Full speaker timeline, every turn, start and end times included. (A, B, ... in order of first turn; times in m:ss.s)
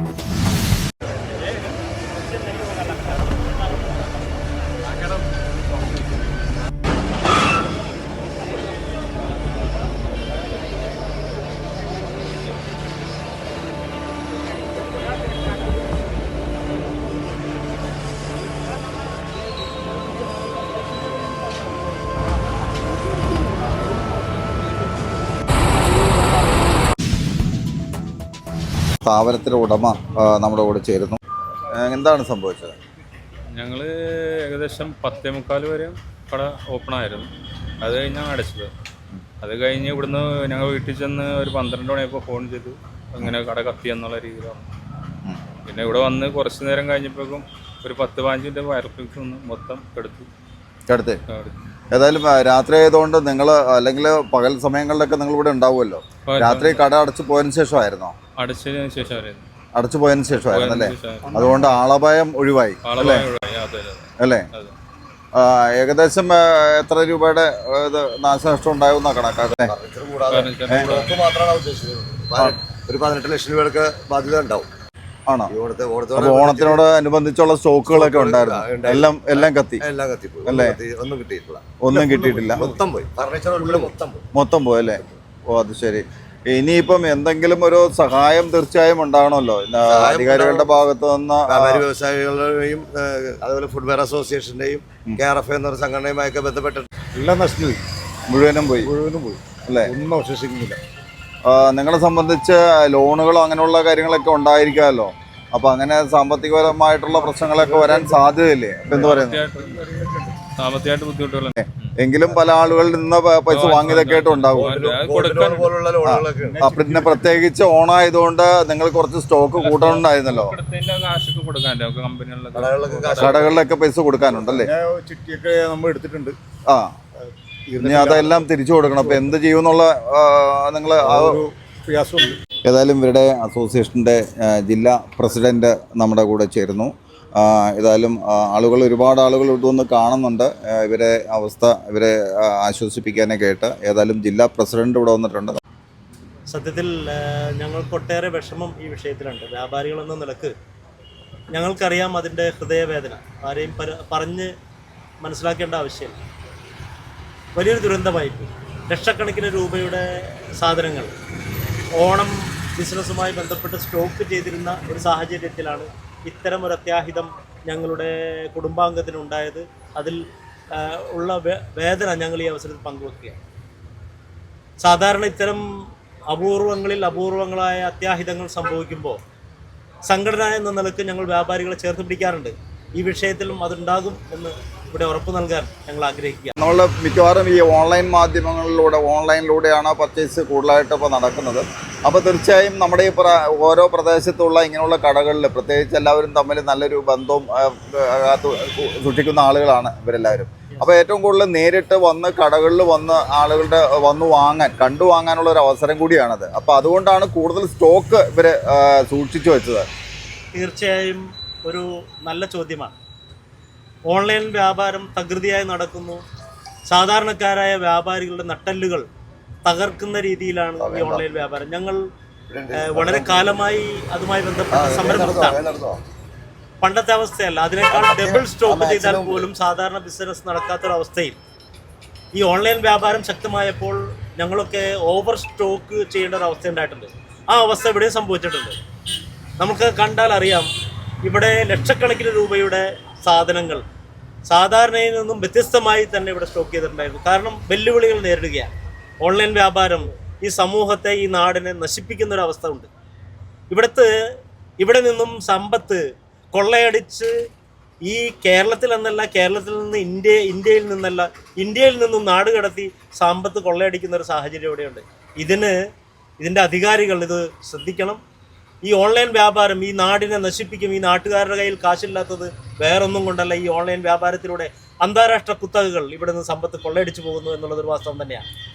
0:01.1-0:01.6 A
0:02.2-0:03.6 A
0:29.0-0:31.2 B
0:31.7-0:32.8 B
0:33.5-0:37.3 C
0:37.8-0:38.7 C
0:39.4-0:44.7 C
0:45.7-0:50.3 C
0:50.9-0:51.2 B
0:51.3-0:51.6 C
0:51.9-0:58.2 B
0:56.3-0:56.8 C
0:58.4-0:59.4 C
0:59.8-1:03.3 B
1:00.3-1:01.6 C
1:02.8-1:04.7 C
1:04.2-1:04.5 B
1:05.3-1:09.7 B
1:09.6-1:14.7 D
1:10.3-1:11.1 C
1:10.7-1:11.0 B
1:15.3-1:15.5 B
1:15.5-1:16.8 D
1:16.2-1:19.8 B
1:17.9-1:24.2 D
1:20.5-1:20.8 B
1:21.8-1:22.8 B
1:22.0-1:22.6 E
1:24.3-1:31.9 B
1:29.9-1:30.8 D
1:31.5-1:36.9 D
1:37.2-1:37.8 E
1:38.3-1:38.9 B
1:38.8-1:40.8 E
1:39.7-1:39.9 B
1:41.5-1:49.4 B
1:47.2-1:48.3 E
1:48.9-1:50.0 C
1:50.6-1:51.9 C
1:51.6-1:54.7 B
1:53.5-1:55.7 C
1:54.6-1:56.6 D
1:56.0-2:00.6 B
1:56.4-1:57.4 E
1:59.6-2:03.5 C
2:02.5-2:03.6 D
2:03.2-2:04.7 B
2:04.3-2:06.4 E
2:06.7-2:06.9 B
2:07.7-2:09.3 E
2:07.8-2:11.4 B
2:11.0-2:12.4 E
2:12.6-2:25.6 B
2:26.5-2:30.5 A
2:31.5-2:34.5 A
2:35.2-2:36.2 A
2:37.6-2:41.1 A
2:42.0-2:50.2 A
2:50.7-2:53.4 A
2:54.8-2:55.7 A
2:56.3-2:59.2 A
3:00.1-3:06.6 A
3:06.6-3:29.9 B
3:30.5-3:32.9 A
3:34.1-3:36.2 A
3:36.9-3:39.1 A
3:39.6-3:42.0 A
3:40.8-3:41.3 D
3:42.5-3:43.5 D
3:42.8-3:45.6 A
3:44.7-3:46.0 D
3:46.8-3:51.4 A
3:47.8-3:49.5 D
3:52.4-3:58.8 A
3:59.6-4:00.7 A
4:01.2-4:03.8 A
4:04.5-4:08.7 A
4:09.2-4:12.9 A
4:13.7-4:14.1 A
4:14.8-4:17.3 A
4:18.0-4:25.8 A
4:26.4-4:28.2 A
4:28.8-4:38.5 A